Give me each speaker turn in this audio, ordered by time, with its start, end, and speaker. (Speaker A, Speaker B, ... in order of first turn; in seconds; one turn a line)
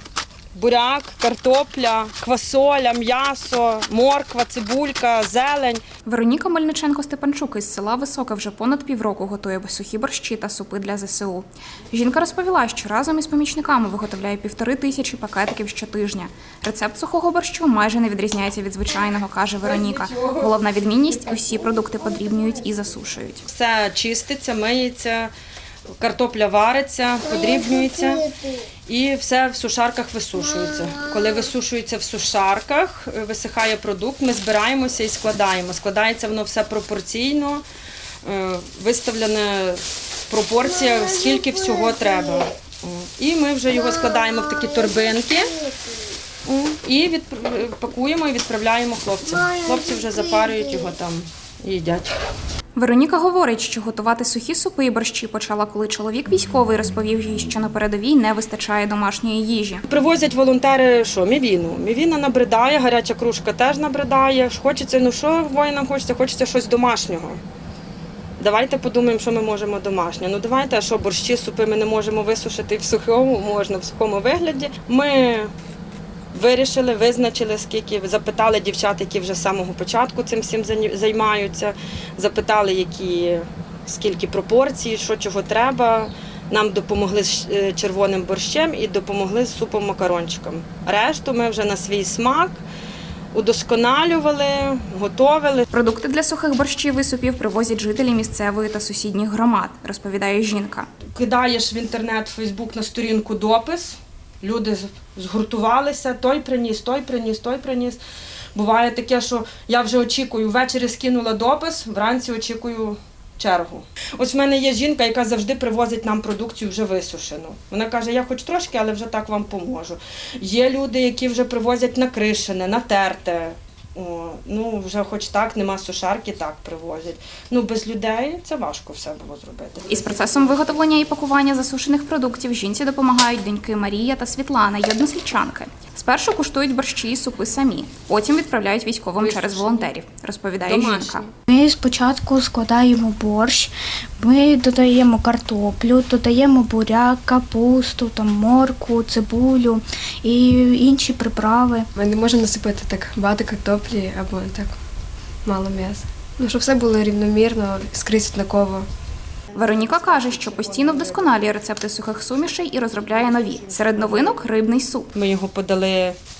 Speaker A: 0.5-5.8
Speaker B: 6.0-23.4
Speaker A: 19.6-20.5
Speaker A: 23.4-25.3
Speaker A: 26.0-37.6
Speaker A: 38.2-45.6
Speaker A: 46.5-52.1
Speaker B: 52.7-59.8
Speaker A: 59.9-67.4
Speaker A: 68.4-75.5
Speaker A: 76.3-92.6
Speaker A: 93.3-95.7
Speaker B: 95.7-100.9
Speaker A: 101.1-108.0
Speaker A: 108.5-130.8
Speaker B: 129.9-141.2
Speaker A: 139.2-139.9
Speaker A: 140.6-141.3
Speaker C: 141.5-151.9
Speaker D: 151.9-154.8
Speaker D: 155.4-158.9
Speaker B: 159.5-165.1
Speaker A: 160.1-161.3
Speaker A: 163.4-164.4
Speaker A: 165.1-166.2